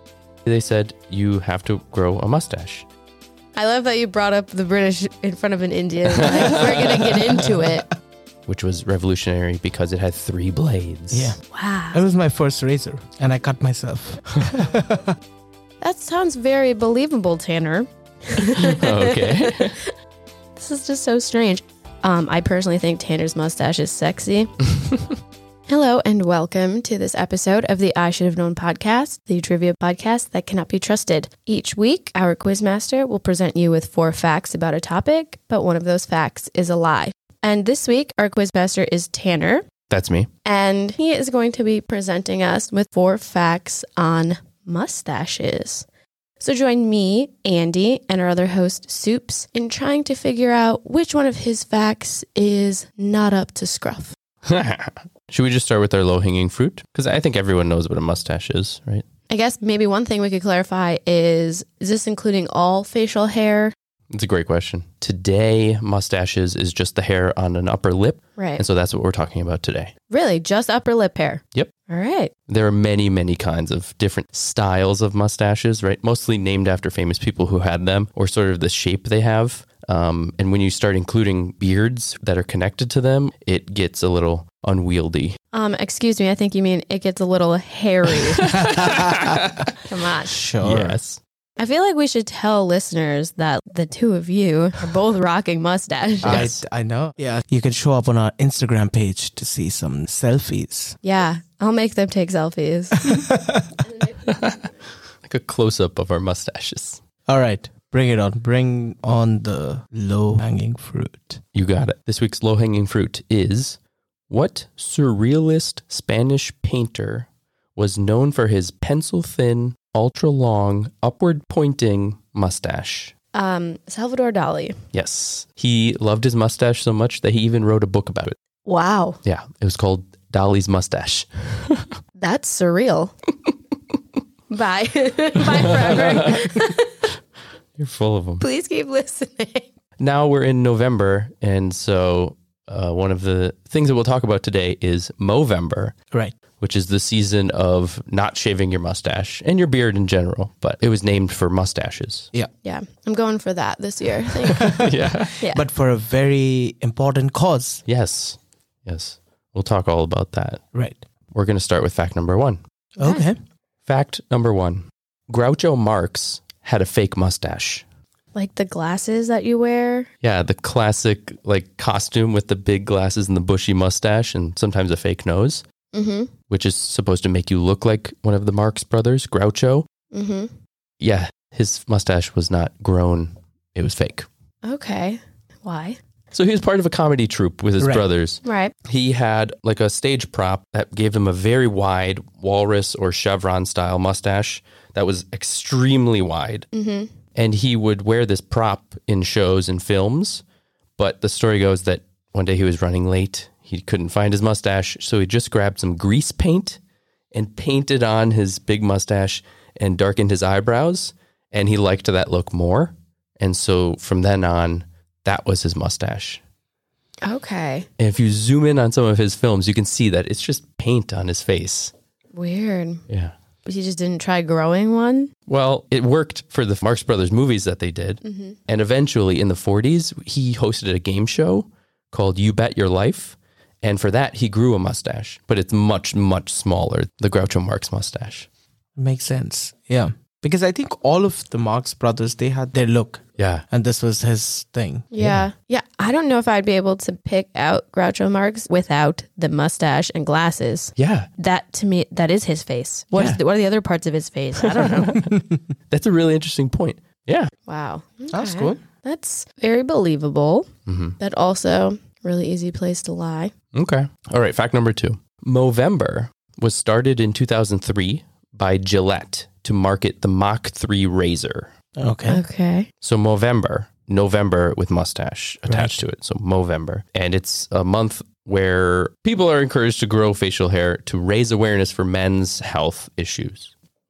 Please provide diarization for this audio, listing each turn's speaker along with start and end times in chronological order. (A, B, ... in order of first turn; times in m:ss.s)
0:00.5-0:02.9 A
0:03.6-0:07.9 B
0:06.2-0:07.0 A
0:08.5-0:11.4 A
0:11.1-0:11.4 C
0:11.5-0:12.0 B
0:11.9-0:15.2 C
0:15.8-0:19.9 B
0:18.6-0:19.8 A
0:20.6-0:24.6 B
0:25.7-0:39.7 B
0:39.9-0:40.3 A
0:40.4-0:45.9 B
0:46.4-0:54.2 B
0:54.5-0:59.0 A
0:59.3-1:03.7 B
1:04.1-1:09.9 A
1:08.4-1:08.6 B
1:10.1-1:12.3 B
1:12.5-1:25.4 A
1:25.5-1:28.5 B
1:28.4-1:29.7 A
1:28.5-1:29.2 C
1:29.9-1:30.4 B
1:30.3-1:31.0 C
1:30.6-1:31.2 A
1:31.6-1:36.6 B
1:36.2-1:41.0 C
1:41.0-1:43.3 B
1:43.1-1:43.7 C
1:44.2-1:44.6 A
1:45.2-1:47.0 A
1:47.3-1:51.4 C
1:51.5-1:53.8 A
1:54.3-2:03.1 A
2:03.3-2:04.8 B
2:04.9-2:08.4 A
2:08.7-2:09.2 B
2:09.2-2:11.9 A
2:12.2-2:13.1 B
2:14.5-2:17.0 B
2:15.4-2:16.4 A
2:17.8-2:18.4 A
2:18.4-2:19.7 B
2:20.0-2:25.9 A
2:26.6-2:32.3 A
2:32.6-2:34.8 B
2:34.6-2:37.8 C
2:34.7-2:35.4 A
2:35.4-2:35.6 B
2:37.9-2:40.6 A
2:40.7-2:41.0 C
2:41.3-2:42.6 A
2:43.0-2:43.4 C
2:43.0-2:43.3 B
2:43.9-2:47.8 A
2:48.3-2:50.1 B
2:50.2-2:55.6 A
2:55.9-2:56.3 B
2:56.5-2:59.9 A
3:00.1-3:00.5 B
3:01.0-3:04.3 A
3:04.6-3:06.0 B
3:06.3-3:16.7 A
3:08.4-3:08.7 B
3:16.7-3:17.1 B
3:17.4-3:20.4 A
3:21.0-3:26.8 A
3:27.3-3:36.4 A
3:37.2-3:37.9 B
3:38.0-3:41.9 A
3:42.3-3:43.0 B
3:43.6-3:45.3 B
3:45.5-3:58.5 A
3:48.2-3:48.6 B
3:59.0-4:05.1 C
4:03.4-4:03.6 A
4:05.1-4:15.2 B
4:05.2-4:05.5 A
4:11.0-4:11.3 A
4:13.1-4:13.4 A
4:14.6-4:15.4 A
4:15.9-4:17.5 A
4:17.7-4:20.7 B
4:18.3-4:18.8 C
4:20.9-4:21.2 A
4:21.2-4:23.5 B
4:23.7-4:31.7 A
4:32.0-4:32.4 C
4:32.3-4:32.9 B
4:33.0-4:43.7 A
4:35.7-4:36.0 C